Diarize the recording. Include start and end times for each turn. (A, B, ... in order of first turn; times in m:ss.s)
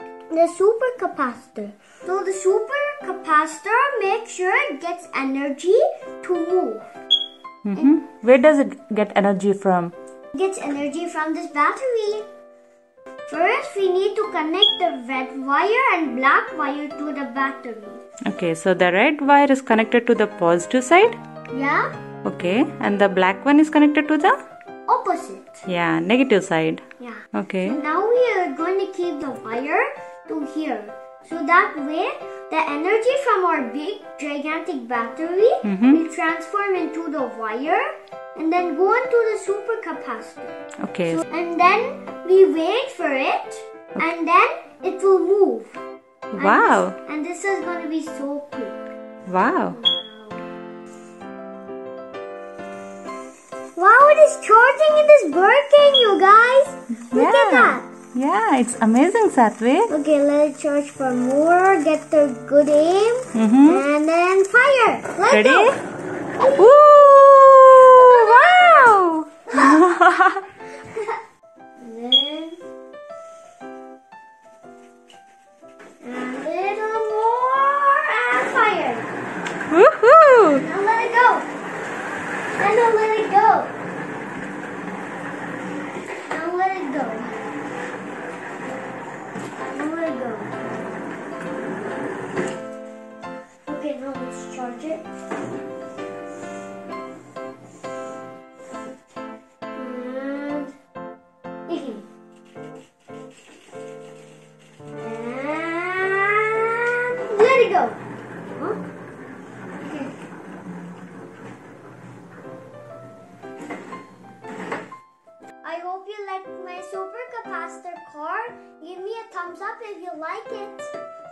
0:00.3-0:06.9 A
0:07.6-0:09.9 B
0:10.3-0:12.3 A
0:13.3-0:18.0 A
0:18.3-0:21.2 B
0:21.5-0:21.9 A
0:22.2-0:24.4 B
0:24.9-0:25.6 A
0:25.7-0:27.8 B
0:27.0-0:40.6 A
0:35.6-0:36.0 B
0:40.8-0:41.2 B
0:41.1-0:45.8 A
0:46.3-0:47.0 B
0:46.4-0:48.9 A
0:49.3-0:49.8 B
0:49.7-0:50.5 A
0:53.8-0:57.9 A
0:57.1-0:59.9 B
0:59.9-1:05.8 A
1:03.3-1:03.8 B
1:05.3-1:05.8 B
1:06.6-1:10.4 B
1:07.8-1:08.9 A
1:09.5-1:09.8 A
1:10.8-1:11.2 A
1:11.8-1:12.6 A
1:16.0-1:19.1 A
1:19.7-1:20.6 B
1:20.4-1:21.5 A
1:22.6-1:23.7 A
1:26.3-1:27.4 A
1:29.6-1:30.6 A
1:33.7-1:35.1 A
1:39.8-1:40.7 A
1:41.7-1:42.1 A
1:45.0-1:48.8 A
1:49.8-1:50.1 A
1:55.6-2:00.9 A